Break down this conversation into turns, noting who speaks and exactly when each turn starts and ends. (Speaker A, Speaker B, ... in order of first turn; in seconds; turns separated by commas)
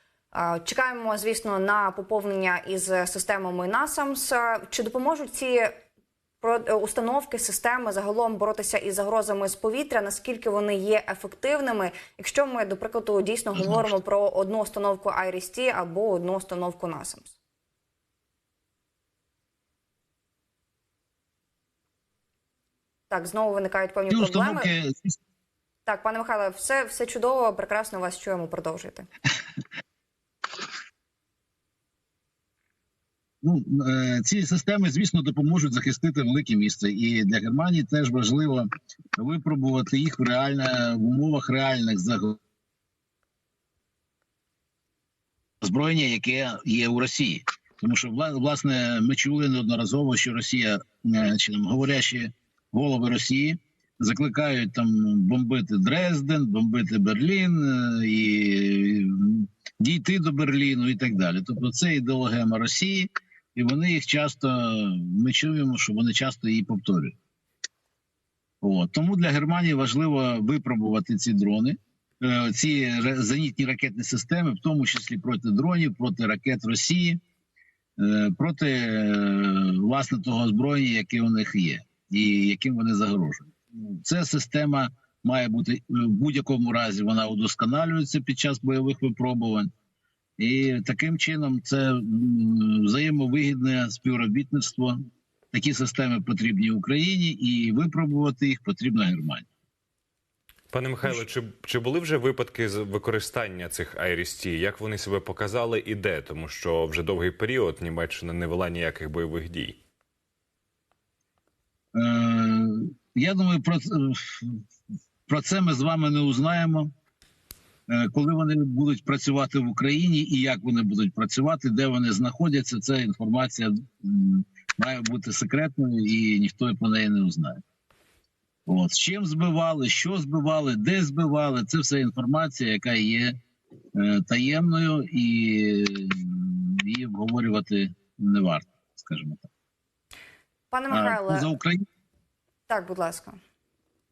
Speaker A: 0.3-5.7, Speaker A: 6.4-17.3, Speaker B: 13.6-13.9, Speaker A: 23.1-24.7, Speaker B: 24.1-25.2, Speaker A: 25.9-29.1, Speaker B: 33.4-42.4, Speaker B: 45.6-67.1, Speaker B: 68.6-77.2, Speaker B: 78.0-89.7, Speaker B: 90.4-95.0, Speaker B: 95.5-99.5, Speaker C: 100.7-109.8, Speaker B: 111.9-114.6, Speaker B: 115.3-116.9, Speaker B: 117.9-127.6, Speaker B: 128.7-133.3, Speaker B: 133.9-139.5, Speaker A: 140.7-141.5, Speaker B: 140.9-141.8, Speaker A: 142.7-143.4